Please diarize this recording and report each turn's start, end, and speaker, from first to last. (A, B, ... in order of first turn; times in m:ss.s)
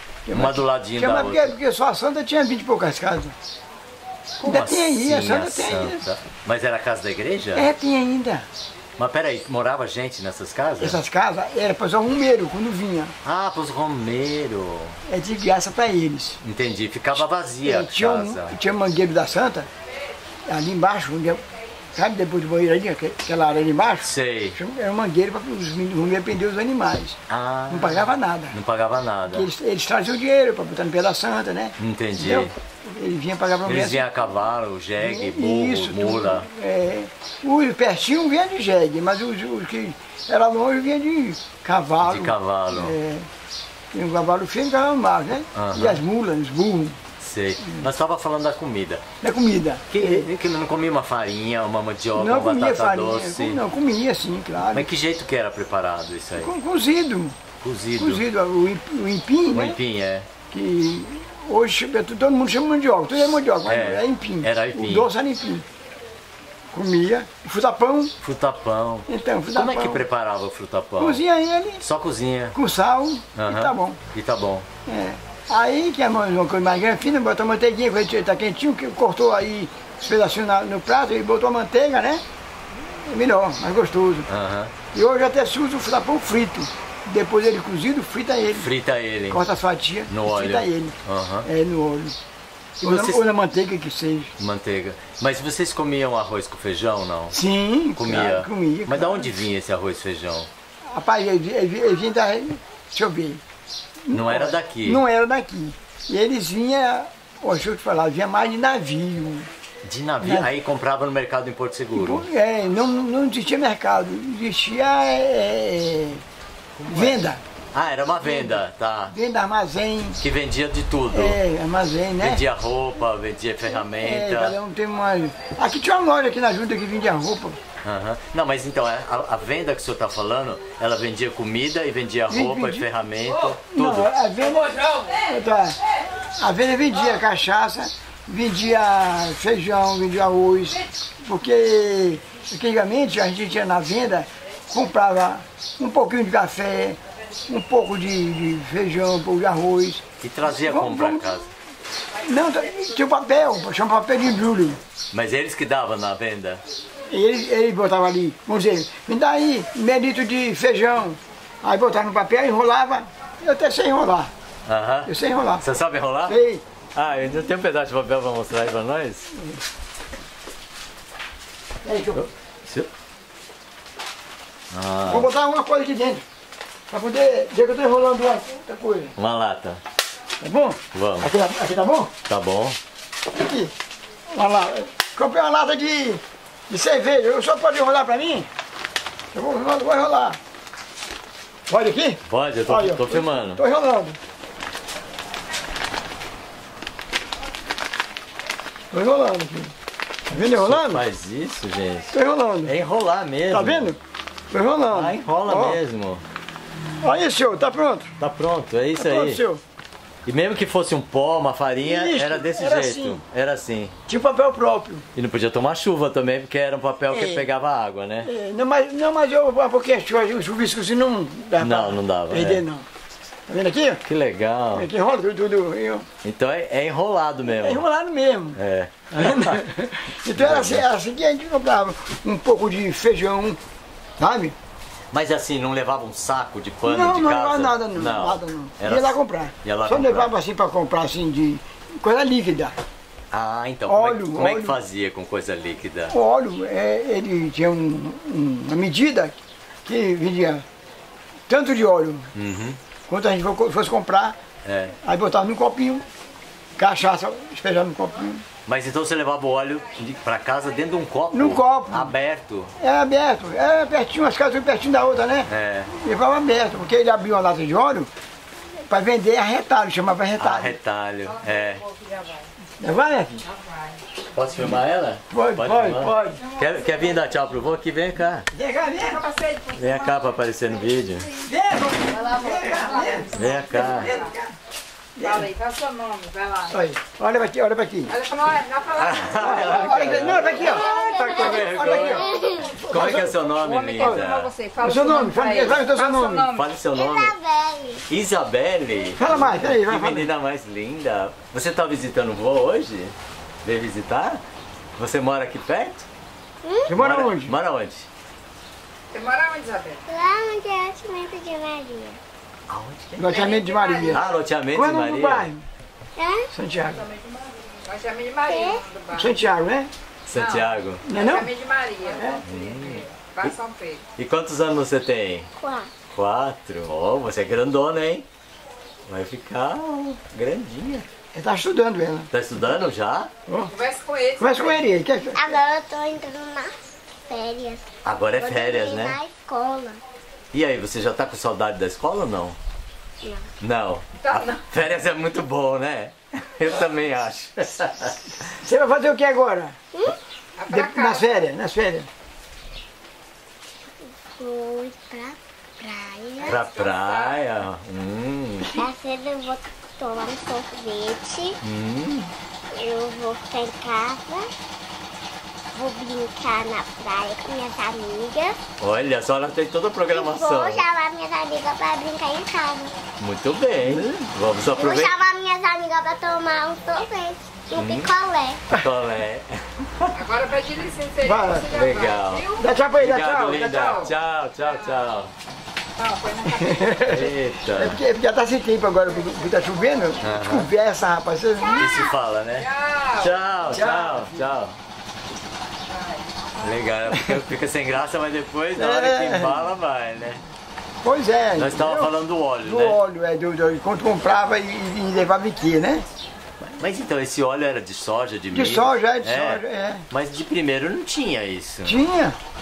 0:00.3-0:03.4 A
0:00.3-0:01.6 B
0:04.4-0:06.0 A
0:04.4-0:07.7 B
0:07.5-0:08.5 A
0:09.0-0:11.0 B
0:10.8-0:13.2 A
0:13.2-0:15.0 B
0:15.1-0:16.4 A
0:16.4-0:18.6 B
0:17.6-0:19.7 A
0:20.5-0:21.4 A
0:21.9-0:28.6 A
0:24.0-0:24.6 B
0:27.3-0:29.5 B
0:29.3-0:34.0 A
0:31.8-0:32.5 B
0:33.6-0:36.5 B
0:35.0-0:43.3 A
0:42.0-0:43.0 B
0:43.9-0:47.0 A
0:45.6-0:46.0 B
0:47.2-0:49.0 B
0:49.2-0:50.3 A
0:49.9-0:53.6 B
0:52.2-0:54.9 A
0:54.7-0:56.5 B
0:56.4-0:57.4 A
0:57.6-0:58.2 B
0:58.0-0:59.8 A
0:59.5-1:00.3 B
1:00.5-1:05.6 A
1:03.7-1:05.1 B
1:06.7-1:08.1 A
1:08.2-1:11.2 B
1:09.1-1:10.1 A
1:11.0-1:11.8 A
1:11.8-1:12.6 B
1:12.5-1:14.0 A
1:13.4-1:14.7 B
1:14.9-1:22.2 A
1:22.8-1:24.3 A
1:24.3-1:24.7 B
1:24.9-1:28.7 A
1:28.5-1:29.4 B
1:29.3-1:32.2 A
1:30.1-1:31.5 B
1:32.8-1:33.3 B
1:32.8-1:34.3 A
1:34.4-1:37.4 B
1:37.3-1:39.4 A
1:38.0-1:40.5 B
1:40.9-1:43.4 A
1:44.1-1:49.5 A
1:44.1-1:45.0 B
1:49.8-1:52.3 B
1:50.2-1:50.5 A
1:52.0-1:56.2 A
1:56.8-1:57.2 B
1:56.9-1:57.4 A
1:57.7-1:59.2 B
1:58.2-2:00.2 A
2:00.2-2:01.4 B
2:01.1-2:02.4 A
2:02.2-2:04.6 B
2:04.0-2:07.6 A
2:07.8-2:14.1 B
2:12.3-2:12.9 A
2:13.4-2:31.4 A
2:30.2-2:31.5 B
2:32.3-2:34.8 A
2:35.1-2:36.6 B
2:37.1-2:44.3 A
2:44.7-2:46.4 B
2:45.1-2:45.6 A
2:46.3-2:46.6 A
2:47.0-2:49.3 B
2:51.8-2:52.2 A
2:52.2-2:52.9 B
2:54.7-2:55.3 B
2:55.1-2:56.2 A
2:56.9-2:59.2 A
2:59.2-2:59.8 B
3:00.4-3:02.1 A
3:00.9-3:01.3 B
3:02.3-3:02.8 B
3:03.3-3:03.7 A
3:04.3-3:08.5 A
3:09.3-3:10.4 A
3:11.7-3:14.2 A
3:12.3-3:13.6 B
3:18.9-3:19.7 A
3:20.3-3:21.0 A
3:20.4-3:23.9 B
3:22.1-3:22.7 A
3:23.5-3:24.0 A
3:24.5-3:25.8 A
3:24.9-3:26.2 B
3:27.0-3:28.1 A
3:28.2-3:29.4 B
3:29.0-3:29.6 A
3:30.3-3:34.0 B
3:31.8-3:33.2 A
3:34.1-3:35.0 A
3:35.2-3:38.3 B
3:37.1-3:37.5 A
3:38.2-3:42.9 A
3:41.6-3:42.6 B
3:43.5-3:44.0 A
3:44.0-3:44.9 B
3:44.7-3:46.1 A
3:46.2-3:47.8 B
3:47.5-3:48.6 A
3:48.6-3:49.7 B
3:49.1-3:53.6 A
3:50.3-3:50.9 B
3:54.2-3:54.6 A
3:55.1-4:00.3 B
3:56.8-4:02.8 A
4:03.3-4:06.1 B
4:03.9-4:04.8 A
4:06.1-4:10.6 A
4:11.5-4:12.3 A
4:12.3-4:12.8 B
4:13.1-4:14.4 A
4:14.6-4:14.9 B
4:15.0-4:16.0 A
4:16.8-4:18.4 A
4:18.7-4:22.7 B
4:21.3-4:22.1 A
4:22.8-4:28.1 A
4:25.5-4:25.9 B
4:28.9-4:30.8 A
4:30.4-4:31.8 B
4:31.2-4:32.5 C
4:32.8-4:33.4 A
4:33.4-4:34.0 C
4:34.3-4:38.5 B
4:35.3-4:36.4 A
4:36.4-4:37.1 C
4:38.5-4:39.2 A
4:38.8-4:40.2 C
4:39.8-4:41.3 B
4:41.4-4:44.5 A
4:41.9-4:44.3 C
4:43.3-4:44.2 B
4:45.2-4:45.5 A
4:45.2-4:46.8 C
4:46.7-4:48.2 A
4:48.1-4:51.6 C
4:49.0-4:54.5 B
4:49.4-4:53.4 A
4:50.6-4:52.7 D
4:53.6-4:56.7 C
4:54.0-4:54.2 A
4:54.8-4:56.5 A
4:56.5-4:57.4 B
4:56.9-4:58.0 D
4:58.1-5:03.1 B
4:59.2-5:00.3 A
5:03.6-5:04.4 B
5:05.0-5:06.0 B
5:06.6-5:06.9 D
5:06.9-5:07.5 A
5:07.0-5:08.1 B
5:09.1-5:10.0 C
5:10.1-5:12.2 D
5:12.7-5:13.4 B
5:13.2-5:15.6 A
5:13.3-5:14.2 C
5:14.1-5:15.5 B
5:16.2-5:16.5 D
5:16.5-5:17.0 A
5:16.9-5:19.4 C
5:18.5-5:18.8 D
5:19.1-5:19.9 A
5:20.3-5:21.0 B
5:20.3-5:24.0 C
5:21.0-5:21.5 A
5:22.0-5:22.4 A
5:22.5-5:23.5 B
5:24.2-5:25.5 B
5:25.6-5:25.9 D
5:26.1-5:28.3 B
5:29.1-5:31.1 B
5:31.4-5:32.3 A
5:32.3-5:33.3 B
5:33.5-5:33.7 A
5:33.7-5:34.9 C
5:34.4-5:35.5 A
5:35.4-5:36.7 D
5:37.3-5:40.0 D
5:38.0-5:39.2 B
5:40.5-5:42.6 B
5:43.6-5:48.2 B
5:44.2-5:44.6 C
5:48.4-5:49.8 A
5:50.6-5:51.4 C
5:50.7-5:52.1 A
5:54.4-5:56.6 D
5:56.4-5:57.4 C
5:56.4-5:58.7 B
5:58.7-6:01.6 D
6:01.6-6:02.3 B
6:02.7-6:04.5 D
6:05.7-6:08.6 D
6:08.8-6:10.8 B
6:10.1-6:12.9 D
6:13.2-6:15.2 B
6:13.8-6:14.3 A
6:14.7-6:18.6 D
6:17.7-6:18.1 B
6:18.7-6:20.2 B
6:20.2-6:22.7 C
6:21.2-6:21.7 A
6:21.7-6:22.5 B
6:22.6-6:24.1 A
6:23.0-6:25.3 B
6:23.4-6:24.1 C
6:26.0-6:27.2 C
6:26.5-6:32.0 A
6:27.0-6:28.0 B
6:30.2-6:30.7 B
6:31.8-6:34.8 B
6:32.6-6:33.4 C
6:33.7-6:34.4 A
6:35.9-6:36.2 C
6:36.6-6:40.4 B
6:38.8-6:39.7 A
6:41.0-6:42.1 A
6:41.6-6:43.0 B
6:42.6-6:46.0 A
6:46.6-6:52.0 B
6:48.5-6:50.1 A
6:51.8-6:52.4 A